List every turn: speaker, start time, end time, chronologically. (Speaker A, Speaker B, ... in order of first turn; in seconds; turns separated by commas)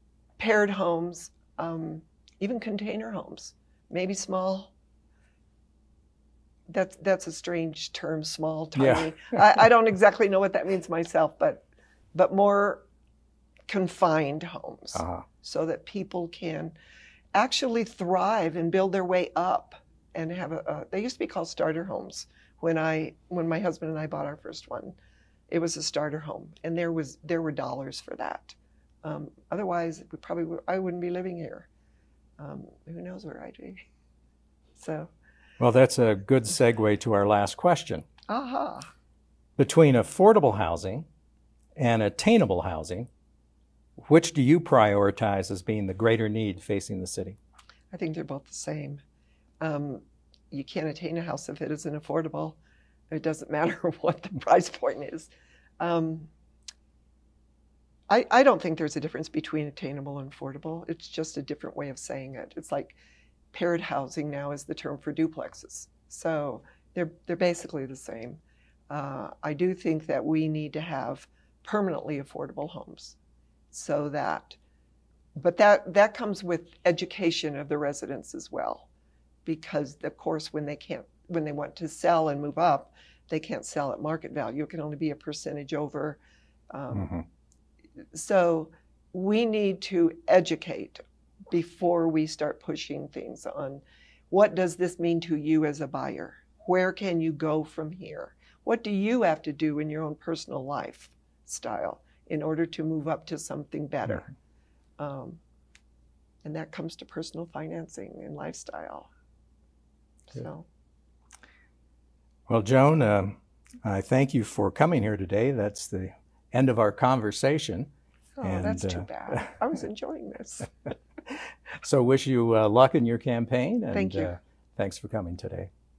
Speaker A: 0.4-4.7, Speaker A: 6.7-12.8, Speaker B: 8.8-9.6, Speaker A: 13.7-16.7, Speaker B: 14.9-15.2, Speaker A: 17.3-25.0, Speaker A: 25.5-31.7, Speaker A: 32.4-33.8, Speaker A: 34.8-35.1, Speaker B: 35.6-38.0, Speaker A: 38.3-38.9, Speaker B: 39.6-41.1, Speaker B: 41.8-43.1, Speaker B: 44.1-47.4, Speaker A: 47.9-49.0, Speaker A: 49.6-52.6, Speaker A: 53.1-56.3, Speaker A: 58.1-63.0, Speaker A: 63.5-73.2, Speaker A: 73.7-74.6, Speaker A: 75.3-78.9, Speaker A: 79.5-86.2, Speaker A: 86.7-87.2, Speaker B: 86.9-87.2, Speaker A: 88.1-104.3, Speaker A: 105.0-105.4, Speaker A: 106.4-109.1, Speaker A: 110.3-110.7, Speaker B: 112.5-117.9, Speaker A: 118.4-120.9, Speaker B: 118.4-119.4, Speaker B: 121.8-125.7, Speaker A: 123.9-124.4